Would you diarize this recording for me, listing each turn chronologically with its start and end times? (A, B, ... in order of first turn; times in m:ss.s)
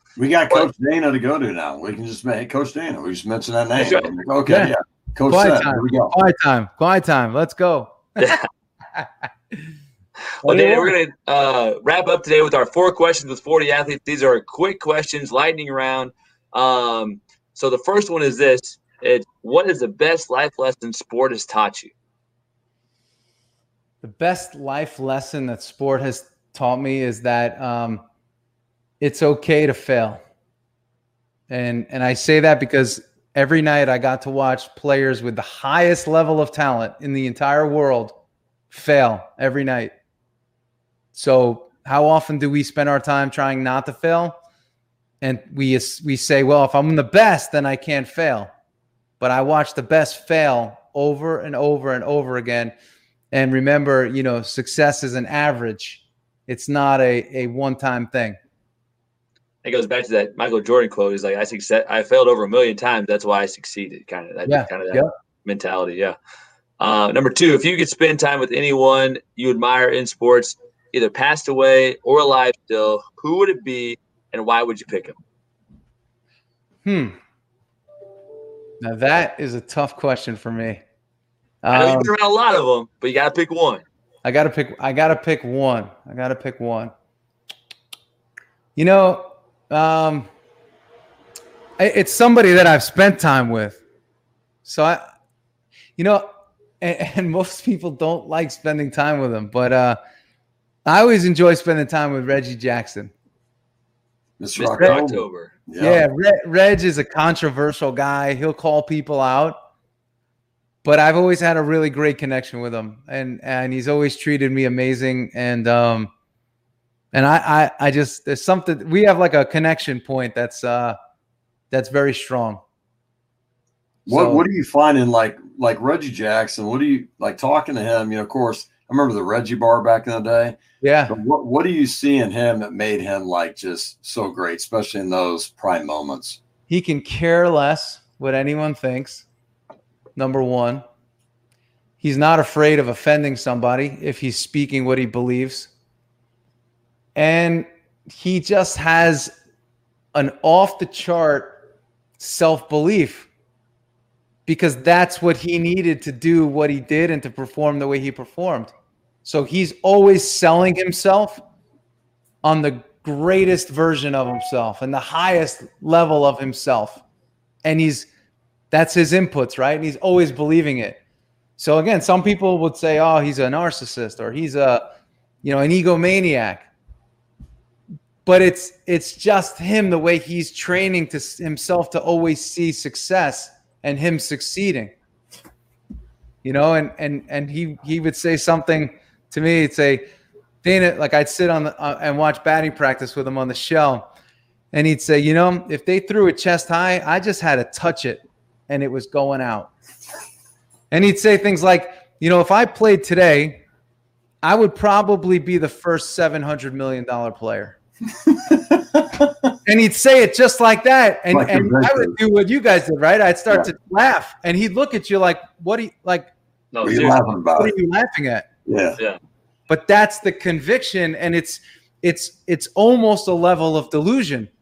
0:00.2-0:06.2 A
0:03.8-0:04.1 B
0:05.3-0:08.4 C
0:10.4-0:21.9 B
0:10.4-0:10.9 C
0:24.0-0:28.0 C
0:29.0-0:30.2 C
0:31.5-0:38.1 C
0:38.7-0:39.9 C
0:41.1-0:44.4 C
0:45.2-0:48.5 C
0:49.2-0:52.7 C
0:53.3-0:58.4 C
0:59.6-1:06.2 B
1:04.5-1:05.1 C
1:06.8-1:15.2 B
1:16.8-1:17.2 C
1:18.8-1:20.8 C
1:21.6-1:22.1 C
1:21.7-1:23.8 B
1:24.2-1:26.9 C
1:28.8-1:30.3 C
1:31.8-1:33.8 C
1:34.6-1:35.0 C
1:36.0-1:36.3 C
1:36.8-1:40.0 C
1:40.9-1:43.1 C
1:44.4-1:46.0 A
1:44.6-1:45.5 B
1:45.8-1:49.6 C
1:50.8-1:56.1 C
1:57.1-2:01.0 C
2:01.7-2:02.6 C
2:04.1-2:04.4 C
2:04.1-2:10.6 A
2:10.8-2:11.2 C
2:11.1-2:16.4 A
2:16.7-2:19.3 C
2:20.2-2:20.8 C
2:22.0-2:25.7 C
2:27.2-2:29.3 C
2:30.1-2:31.6 C
2:32.2-2:33.3 C
2:34.5-2:38.7 C
2:39.2-2:41.4 C
2:42.4-2:47.0 C
2:47.6-2:48.1 C
2:48.7-2:51.0 C
2:51.6-2:54.8 C
2:55.4-2:56.7 C
2:58.3-3:04.9 C
3:06.4-3:10.0 C
3:10.6-3:14.1 C
3:14.7-3:19.7 C
3:20.9-3:23.6 C
3:24.4-3:27.8 C
3:28.3-3:29.5 A
3:29.7-3:36.3 C
3:31.3-3:32.2 A
3:36.7-3:37.2 B
3:36.8-3:37.7 A
3:36.9-3:38.5 C
3:38.7-3:39.0 A
3:39.7-3:44.5 C